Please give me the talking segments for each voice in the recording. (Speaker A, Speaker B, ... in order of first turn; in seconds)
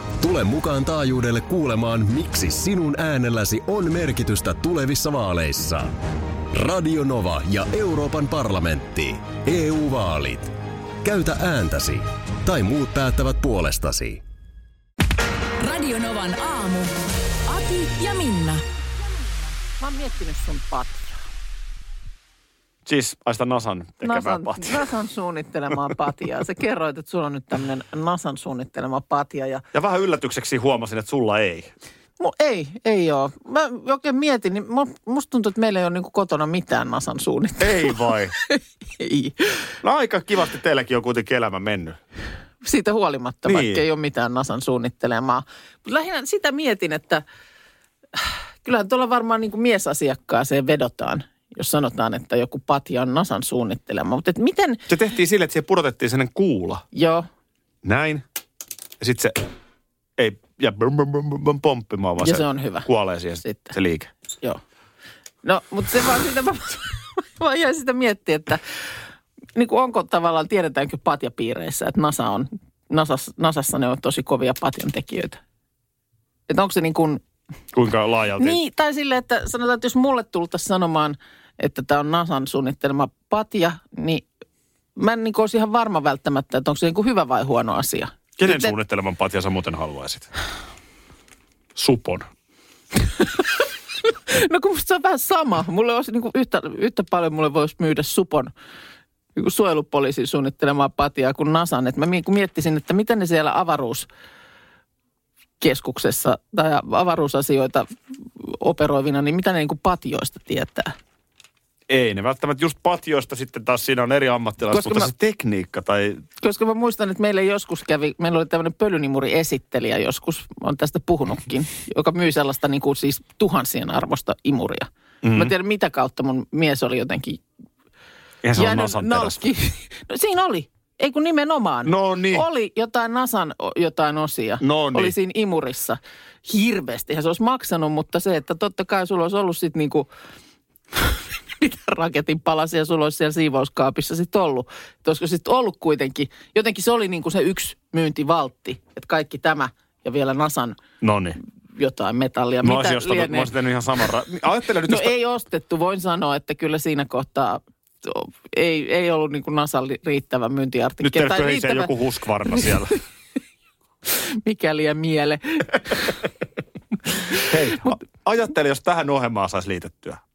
Speaker A: 0.2-6.0, 6.5-10.5, 11.0-14.2
Speaker B: 15.6-16.9, 17.5-18.6
Speaker C: 19.8-21.2, 24.0-29.6, 32.2-39.6, 42.6-47.2, 48.2-54.8, 56.9-57.3, 62.2-62.9, 63.4-63.7, 65.4-68.6, 69.5-75.4, 76.5-77.2, 78.4-84.2, 85.0-88.7, 93.2-98.5, 99.4-104.1, 105.6-110.9, 114.7-115.1, 116.4-127.4, 128.6-140.1, 141.0-150.8, 151.8-153.5, 154.9-161.9, 164.1-166.2, 167.2-168.0
Speaker D: 22.9-24.9, 29.7-31.7, 37.6-38.3, 39.8-42.0, 43.5-43.8, 54.9-56.8, 57.8-58.2, 59.0-59.4, 60.2-64.1, 77.7-78.6, 88.4-90.3, 91.8-92.3, 111.9-116.2, 125.2-125.5, 128.4-129.5, 131.8-132.4, 134.6-135.2, 151.0-151.4, 152.6-155.1, 161.0-163.0, 167.3-170.2